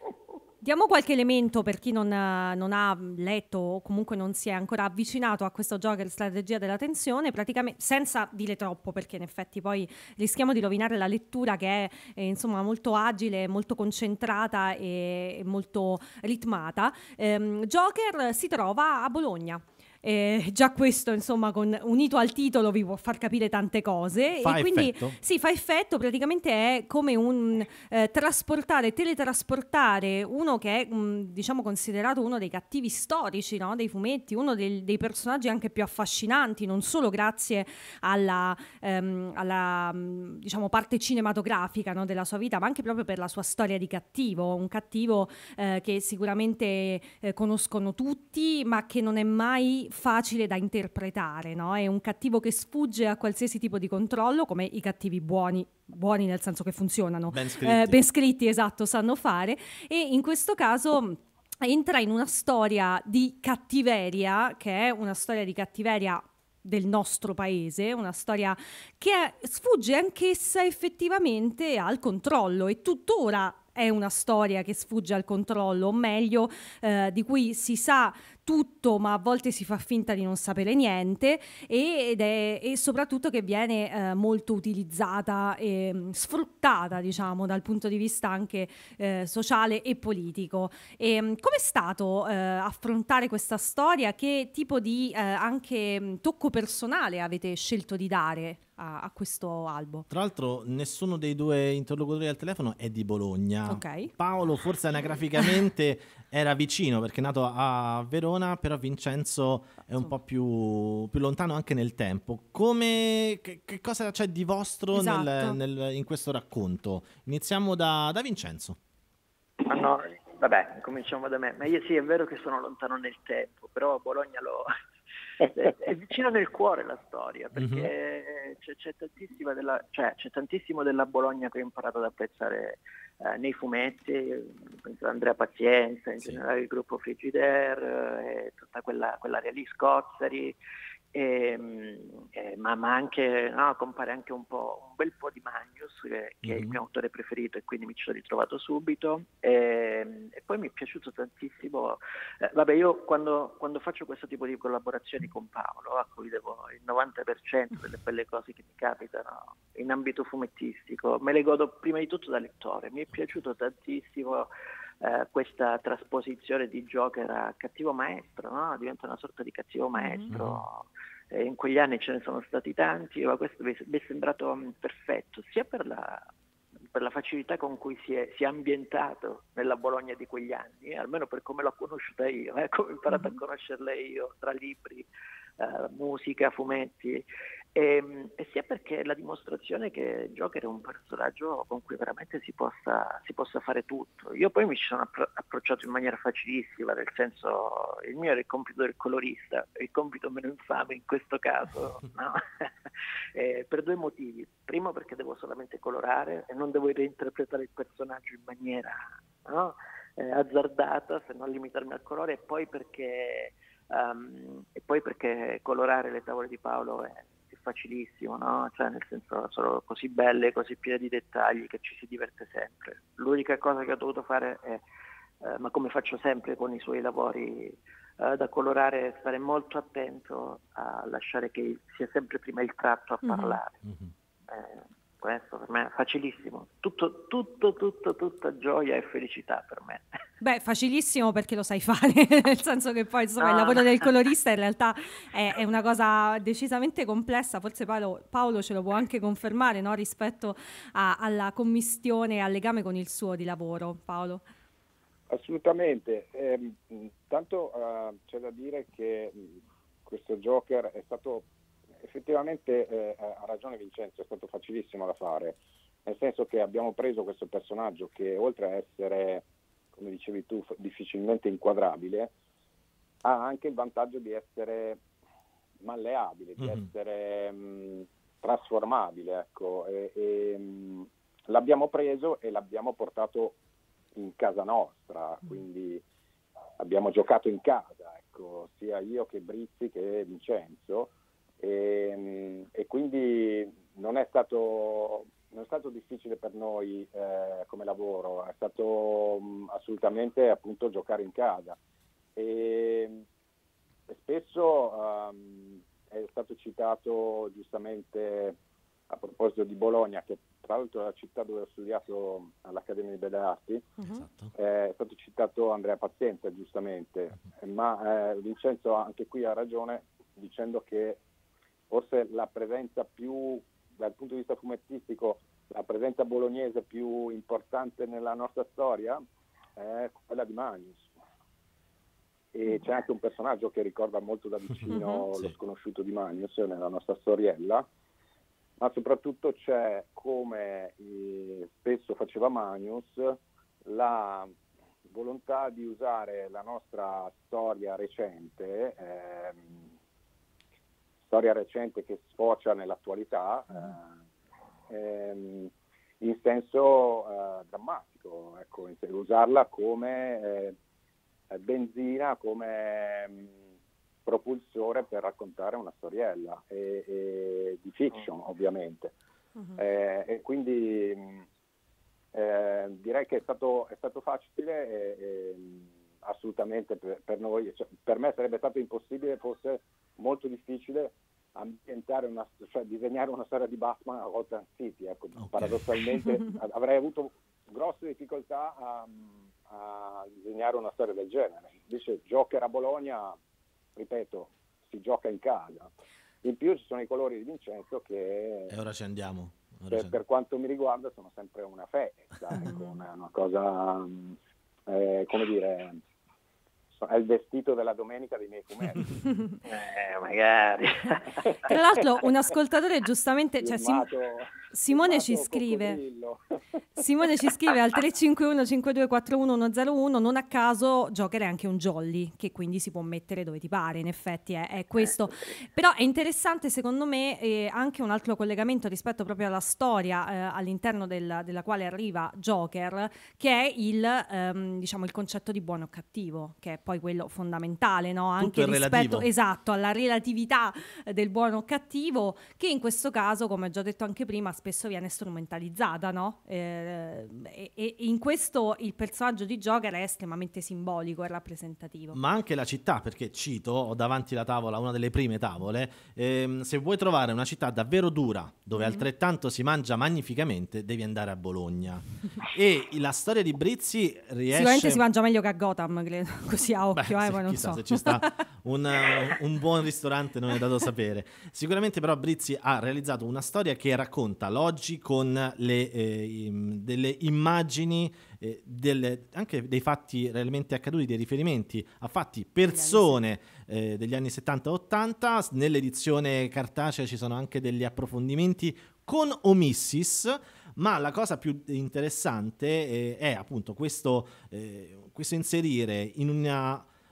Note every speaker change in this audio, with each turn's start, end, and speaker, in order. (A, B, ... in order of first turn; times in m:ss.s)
0:00.6-1:40.0 A
0:24.4-0:25.2 B
0:57.3-0:58.0 B
1:40.1-1:58.8 B
1:43.7-1:44.1 A
1:54.9-1:55.6 A
1:59.6-2:04.7 C
2:05.4-2:20.6 C
2:07.6-2:07.9 B
2:21.1-2:44.5 C
2:26.4-2:26.8 B
2:45.0-2:56.2 C
2:50.0-2:50.3 A
2:50.3-2:50.6 B
2:56.9-3:05.1 C
3:03.1-3:03.4 A
3:05.6-3:44.8 C
3:45.4-3:53.8 C
3:53.2-3:53.6 A
3:53.8-3:54.1 B
3:54.5-4:00.0 C
4:00.4-4:14.4 A
4:03.4-4:04.1 C
4:15.3-4:21.4 D
4:22.0-4:32.3 D
4:33.2-4:35.0 D
4:35.8-4:43.6 D
4:36.6-4:36.8 B
4:44.1-4:46.0 D
4:46.8-5:01.8 D
5:02.4-5:03.2 D
5:04.1-5:08.6 D
5:09.1-5:13.9 D
5:14.0-5:14.2 A
5:14.1-5:14.5 B
5:14.5-5:21.2 D
5:21.9-5:29.2 D
5:29.8-5:31.1 D
5:32.5-5:37.8 D
5:34.9-5:35.5 B
5:34.9-5:35.2 A
5:38.8-5:44.5 D
5:45.1-5:49.8 D
5:51.2-5:54.1 D
5:53.7-5:54.0 A
5:54.9-6:00.8 D
6:01.5-6:03.6 D
6:04.2-6:09.1 D
6:09.6-6:09.8 A
6:09.8-6:11.4 D
6:12.3-6:33.3 D
6:25.4-6:25.9 B
6:34.0-6:35.9 D
6:36.4-6:38.8 D
6:38.7-6:40.2 B
6:39.9-6:44.4 D
6:42.6-6:43.0 A
6:44.9-6:46.0 D
6:47.0-6:49.2 D
6:49.7-6:51.5 C
6:51.4-6:51.7 D
6:51.6-6:54.1 A
6:53.6-6:56.4 D
6:54.7-6:56.0 A
6:57.0-7:32.2 A
7:18.4-7:19.3 B
7:32.1-7:45.0 B
7:38.8-7:39.0 A
7:44.5-7:48.4 A
7:46.9-8:16.9 B
8:02.6-8:03.2 A